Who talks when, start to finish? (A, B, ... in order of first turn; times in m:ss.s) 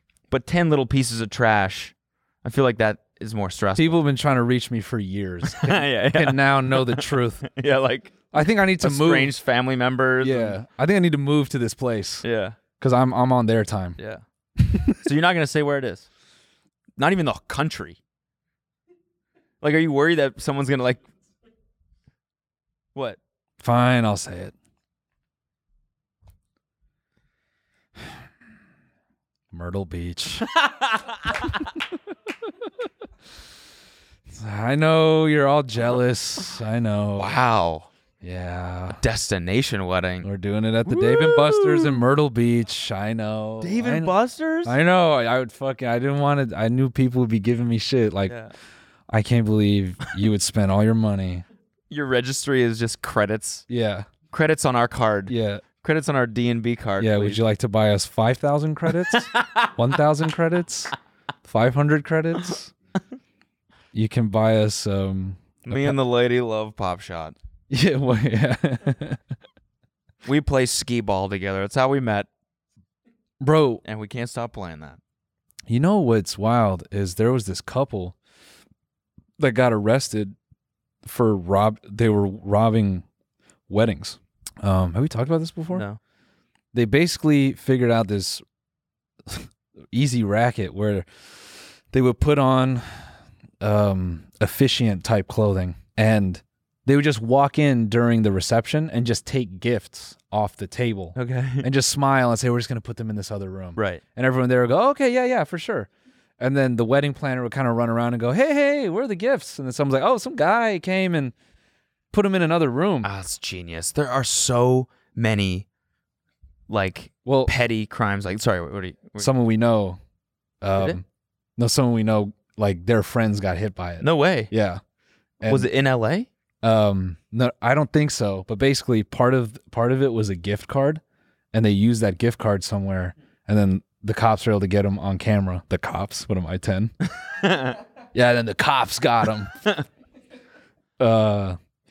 0:00.3-0:04.0 A
0:03.8-0:07.5 B
0:05.4-0:08.3 A
0:08.3-0:09.3 B
0:08.8-0:10.6 A
0:10.2-0:12.2 B
0:12.2-0:12.6 A
0:12.8-0:14.0 B
0:14.0-0:14.2 A
0:14.6-0:15.0 B
0:15.0-0:16.1 A
0:17.0-0:18.0 A
0:19.6-0:21.0 A
0:23.6-0:24.5 B
0:29.5-0:30.5 B
0:30.5-0:31.6 A
0:34.3-0:37.3 B
0:37.2-0:37.9 A
0:38.2-0:39.0 B
0:38.9-0:40.3 A
0:40.2-0:48.4 B
0:40.8-0:42.0 A
0:43.6-0:44.8 A
0:48.3-0:48.5 A
0:49.1-0:51.4 B
0:51.9-0:53.6 A
0:53.7-0:54.1 B
0:54.3-0:57.4 A
0:55.3-0:55.6 B
0:57.0-1:00.9 B
0:59.1-0:59.8 A
1:01.4-1:02.7 B
1:03.9-1:05.9 B
1:05.6-1:07.4 A
1:07.7-1:09.2 B
1:10.2-1:12.3 A
1:13.4-1:13.8 B
1:13.8-1:15.0 A
1:15.7-1:18.1 B
1:19.4-1:20.4 B
1:21.0-1:23.0 B
1:23.7-1:25.8 B
1:25.7-1:26.0 A
1:26.7-1:28.4 B
1:29.3-1:51.3 B
1:41.1-1:41.7 A
1:43.8-1:44.0 A
1:52.1-1:53.1 B
1:53.0-1:55.6 A
1:56.7-1:59.3 A
1:57.2-1:57.5 B
1:59.2-2:00.0 B
2:00.6-2:01.0 B
2:01.6-2:04.8 B
2:04.0-2:04.5 A
2:05.4-2:05.7 B
2:05.5-2:06.3 A
2:06.6-2:11.0 B
2:11.5-2:16.9 B
2:17.2-2:17.8 A
2:18.1-2:19.5 B
2:21.0-2:21.6 B